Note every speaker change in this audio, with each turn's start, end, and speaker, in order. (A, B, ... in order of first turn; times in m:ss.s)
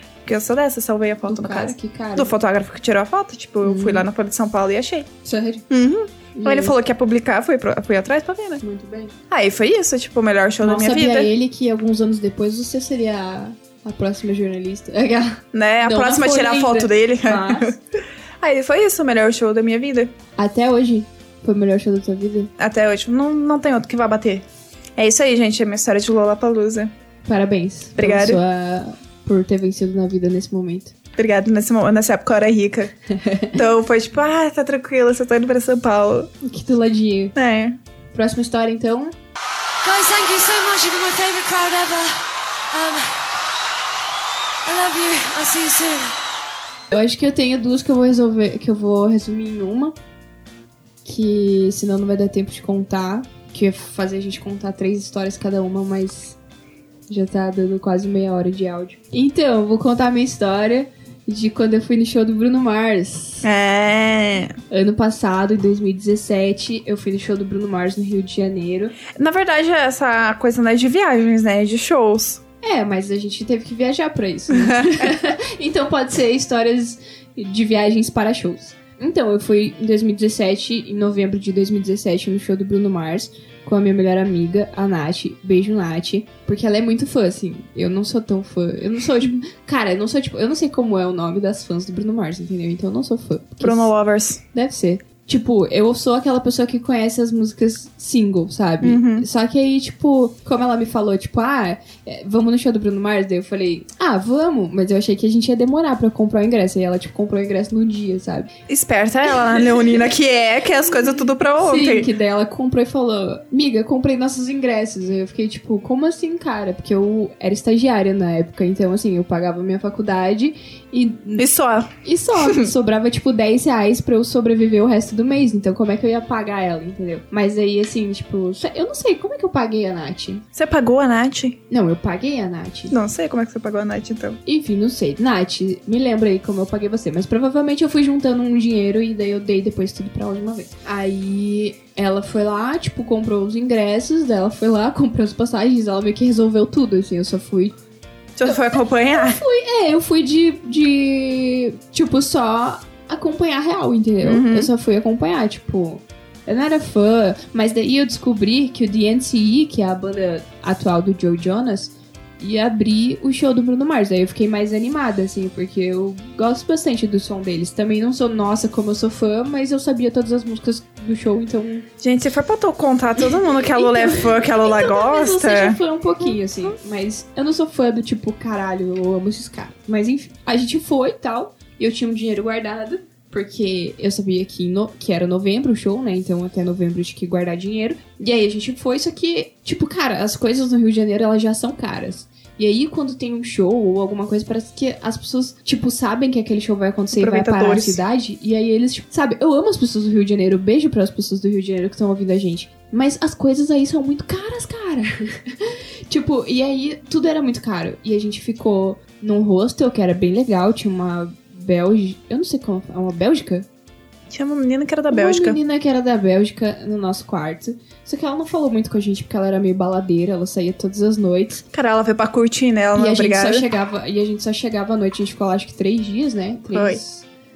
0:00.2-0:05.1 A
0:01.2-0:02.3 B
0:03.6-0:04.1 B
0:05.2-0:05.7 B
0:05.7-0:08.6 A
0:06.4-0:06.8 B
0:08.6-0:09.1 B
0:09.3-0:11.3 A
0:10.6-0:17.7 B
0:15.5-0:17.8 A
0:18.4-0:20.1 A
0:20.4-0:22.5 B
0:22.6-0:24.4 A
0:25.0-0:26.9 A
0:27.2-0:31.0 B
0:28.0-0:28.4 A
0:31.2-0:32.9 A
0:33.1-0:33.6 B
0:33.5-0:36.3 A
0:36.4-0:37.3 B
0:37.4-0:37.8 A
0:38.1-0:39.1 B
0:39.8-0:43.2 C
0:44.7-0:46.2 C
0:46.9-0:50.0 B
0:51.0-0:56.4 B
0:57.1-1:03.5 B
1:03.4-1:04.6 A
1:04.7-1:09.0 B
1:09.1-1:12.4 A
1:12.6-1:33.9 B
1:14.5-1:15.1 A
1:33.6-1:34.4 A
1:34.5-1:48.5 B
1:38.8-1:39.2 A
1:48.7-1:52.1 A
1:51.6-2:01.5 B
2:01.4-2:01.9 A
2:02.0-2:10.4 B
2:10.5-2:11.6 A
2:11.7-2:12.9 B
2:12.9-2:14.4 A
2:14.5-2:27.8 B
2:28.4-2:29.4 A
2:28.4-2:51.9 B
2:34.2-2:34.7 A
2:52.0-2:55.8 A
2:53.2-3:33.7 B
3:17.1-3:18.0 A
3:34.3-3:35.6 A
3:35.1-3:41.6 B
3:41.7-3:43.6 A
3:43.0-3:47.2 B
3:46.7-3:47.0 A